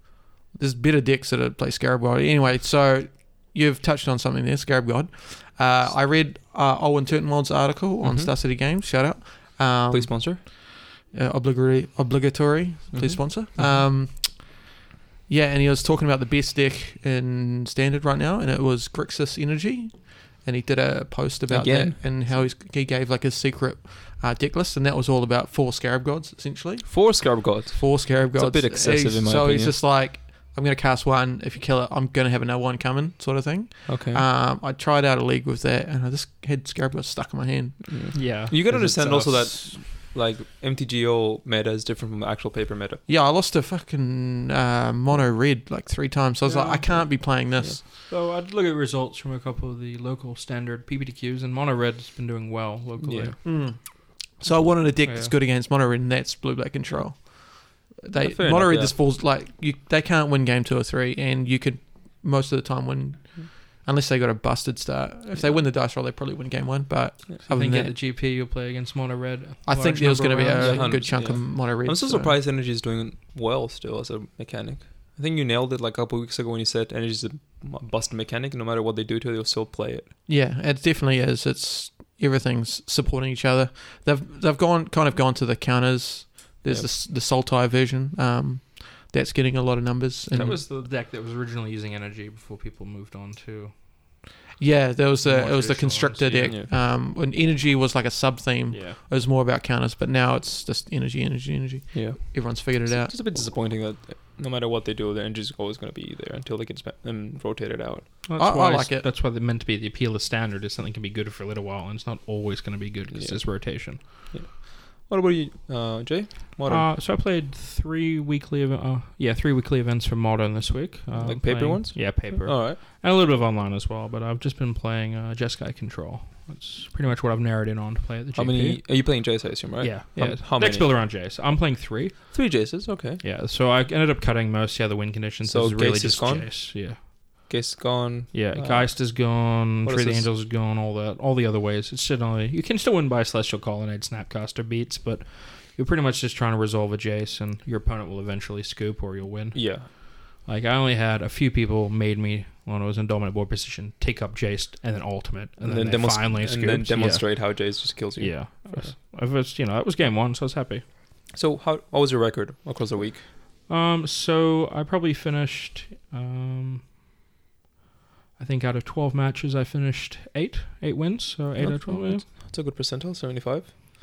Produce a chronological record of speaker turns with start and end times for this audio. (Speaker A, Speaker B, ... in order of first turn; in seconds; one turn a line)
Speaker A: 0.6-14.7
Speaker B: 8.0-8.3
Speaker B: 9.9-10.4
Speaker B: 12.9-13.3
Speaker A: 15.3-38.2
Speaker B: 21.5-22.0
Speaker B: 26.9-29.8
Speaker B: 33.9-34.2
Speaker B: 37.9-43.0
Speaker C: 38.1-39.5
Speaker A: 39.0-39.5
Speaker A: 43.1-47.8
Speaker C: 46.4-47.2
Speaker C: 47.9-53.4
Speaker B: 53.0-53.4
Speaker A: 53.4-68.0
Speaker C: 55.0-55.3
Speaker B: 58.2-59.0
Speaker C: 67.5-71.2
Speaker A: 69.7-72.4
Speaker B: 70.6-80.1
Speaker A: 80.3-90.6
Speaker C: 90.3-94.2
Speaker A: 94.6-103.1
Speaker C: 95.2-96.6
Speaker C: 98.7-99.0
Speaker B: 101.9-108.1
Speaker C: 108.2-114.0
Speaker A: 108.4-109.1
Speaker B: 113.1-116.9
Speaker C: 116.7-129.2
Speaker B: 121.1-122.8
Speaker B: 128.3-131.0
Speaker C: 129.8-132.7
Speaker B: 132.3-133.2
Speaker C: 133.2-137.5
Speaker B: 135.4-136.8
Speaker B: 137.5-140.3
Speaker C: 138.3-160.8
Speaker B: 149.5-149.9
Speaker B: 155.6-158.9
Speaker B: 161.3-163.2
Speaker C: 163.7-166.9
Speaker C: 168.4-172.2
Speaker B: 171.6-173.7